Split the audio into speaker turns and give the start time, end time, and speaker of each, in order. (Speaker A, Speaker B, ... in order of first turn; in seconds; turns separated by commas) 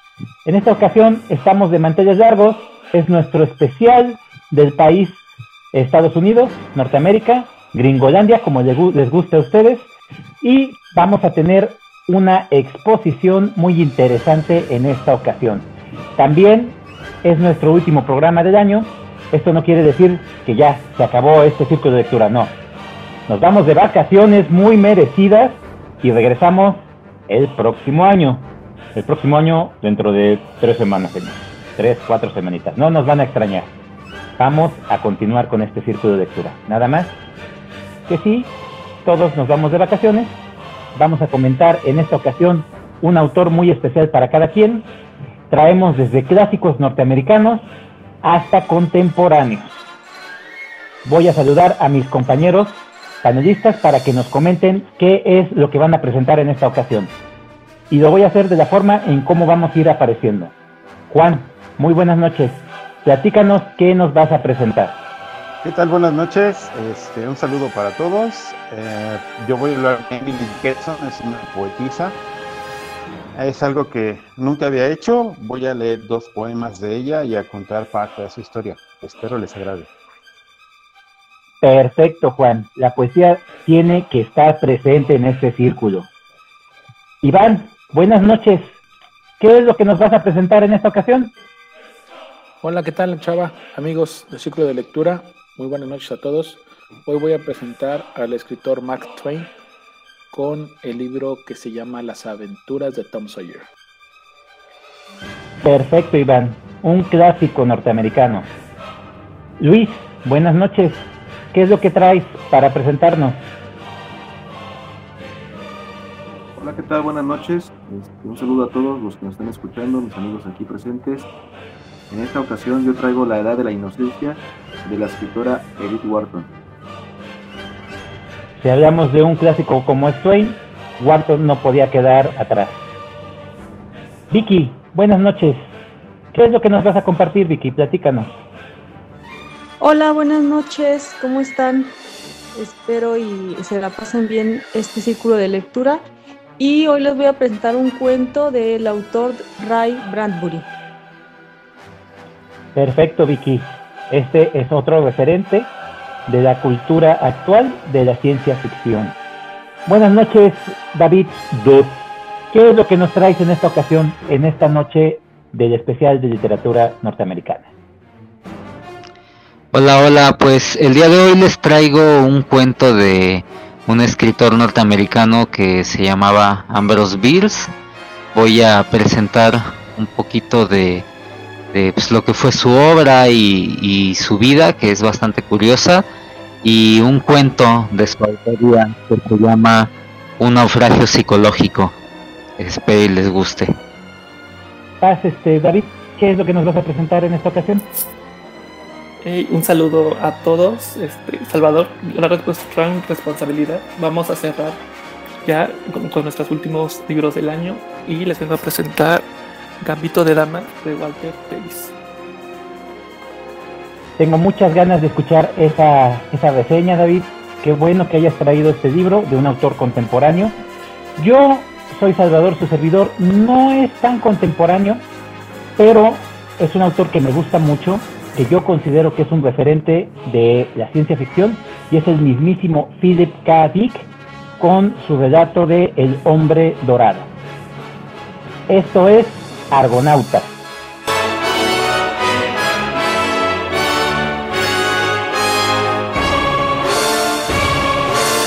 Speaker A: 0.5-5.2, Speaker A: 5.7-9.9, Speaker A: 10.4-22.5, Speaker A: 23.3-33.7, Speaker A: 34.4-37.1, Speaker A: 38.1-38.5, Speaker A: 39.0-40.4, Speaker A: 41.0-44.9, Speaker A: 45.5-47.7, Speaker A: 48.2-49.7, Speaker A: 51.0-57.1, Speaker A: 57.9-60.5, Speaker A: 61.1-65.0, Speaker B: 65.6-72.2, Speaker B: 73.3-79.9, Speaker A: 81.6-86.1, Speaker A: 87.2-88.7, Speaker A: 89.4-91.3, Speaker C: 92.6-99.5, Speaker C: 100.3-103.7, Speaker A: 105.6-108.5, Speaker A: 109.6-113.4, Speaker D: 116.6-121.3, Speaker D: 122.1-126.5, Speaker A: 128.6-132.8, Speaker A: 134.3-135.7, Speaker A: 136.3-138.3, Speaker E: 139.8-141.9, Speaker E: 142.6-146.0, Speaker E: 146.6-150.7, Speaker A: 152.8-155.7, Speaker A: 156.3-159.2, Speaker A: 159.9-162.0, Speaker A: 162.5-167.7, Speaker F: 169.7-177.7, Speaker F: 178.3-181.1, Speaker F: 181.7-186.1, Speaker F: 186.6-192.0, Speaker F: 192.6-193.8, Speaker A: 195.0-197.8, Speaker G: 199.2-204.8, Speaker G: 205.4-209.2, Speaker G: 209.8-211.9, Speaker A: 214.2-220.5, Speaker A: 221.2-225.0, Speaker A: 225.8-234.1, Speaker A: 234.6-237.3, Speaker A: 238.7-240.5